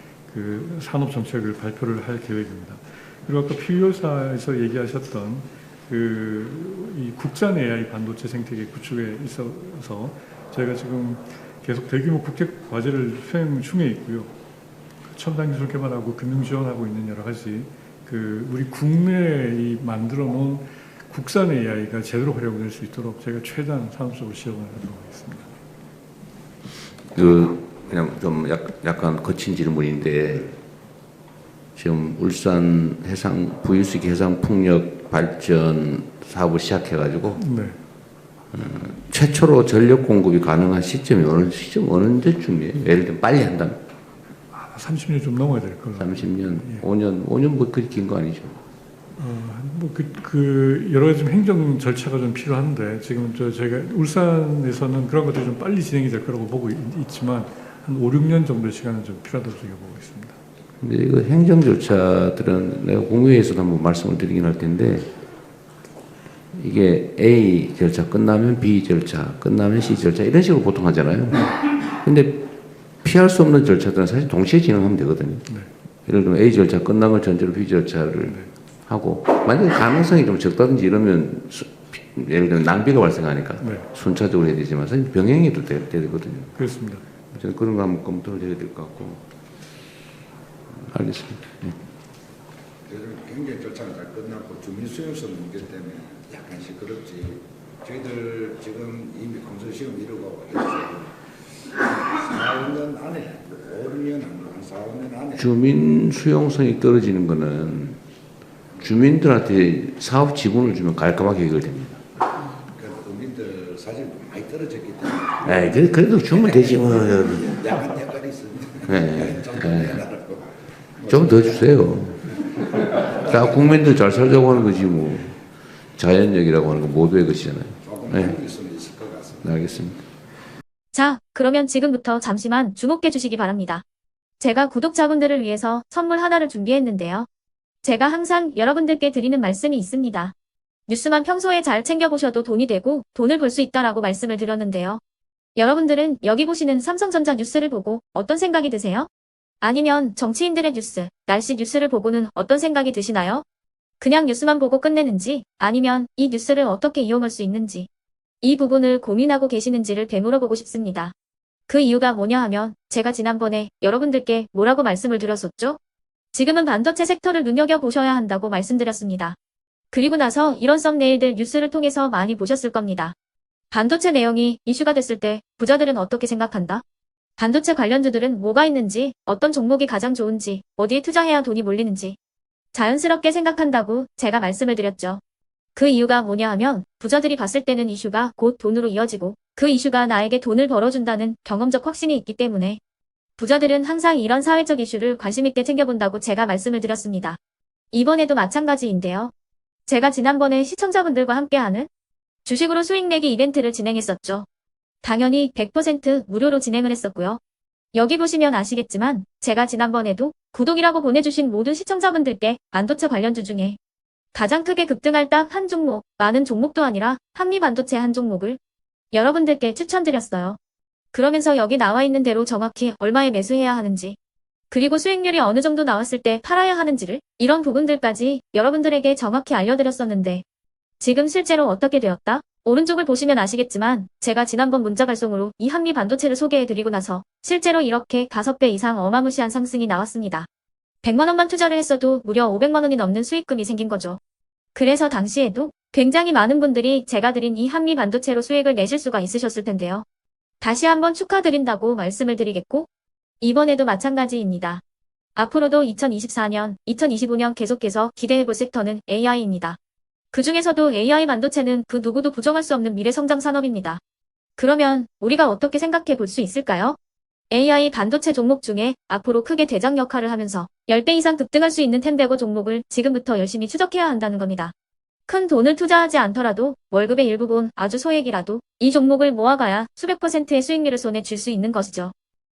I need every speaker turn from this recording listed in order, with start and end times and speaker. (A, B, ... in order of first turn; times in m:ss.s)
0:00.3-0:14.3 A
0:15.1-0:25.5 A
0:27.1-0:30.6 B
0:31.8-0:37.4 B
0:37.4-0:37.8 A
0:38.5-0:43.8 B
0:44.5-0:46.8 A
0:46.0-0:48.6 B
0:49.2-1:00.4 A
1:00.8-1:05.1 B
1:06.5-1:12.5 B
1:13.0-1:15.4 B
1:16.0-1:26.5 B
1:18.2-1:18.5 A
1:23.6-1:23.9 A
1:26.5-1:27.0 A
1:27.3-1:29.2 B
1:30.7-1:31.8 B
1:32.9-1:41.1 C
1:41.9-1:45.4 C
1:45.4-1:48.0 B
1:48.8-1:52.0 B
1:52.7-1:55.4 C
1:55.4-1:57.7 B
1:57.4-2:00.5 C
1:58.8-2:00.0 B
2:01.0-2:01.4 C
2:01.1-2:05.4 B
2:06.0-2:08.4 B
2:07.9-2:09.4 C
2:09.4-2:10.0 B
2:10.9-2:13.8 D
2:14.4-2:17.3 D
2:17.8-2:20.3 D
2:20.9-2:25.0 D
2:25.6-2:29.1 D
2:29.6-2:33.4 D
2:34.0-2:37.9 D
2:38.4-2:41.1 D
2:41.7-2:45.8 D
2:46.3-2:49.4 D
2:49.9-2:53.1 D
2:53.7-2:56.8 D
2:57.4-3:02.2 D
3:02.7-3:05.2 D
3:05.7-3:12.8 D
3:13.4-3:17.4 D
3:17.9-3:19.3 D
3:19.9-3:21.9 D
3:22.4-3:24.5 D
3:25.0-3:27.4 D
3:27.9-3:33.8 D
3:34.3-3:38.6 D
3:39.1-3:40.6 D
3:41.1-3:44.2 D
3:44.7-3:50.4 D
3:51.0-4:00.5 D
4:01.0-4:04.2 D
4:04.7-4:10.0 D
4:10.6-4:12.9 D
4:13.4-4:14.8 D
4:15.4-4:19.8 D
4:20.3-4:24.0 D
4:24.6-4:27.0 D
4:27.5-4:34.7 D
4:35.3-4:42.1 D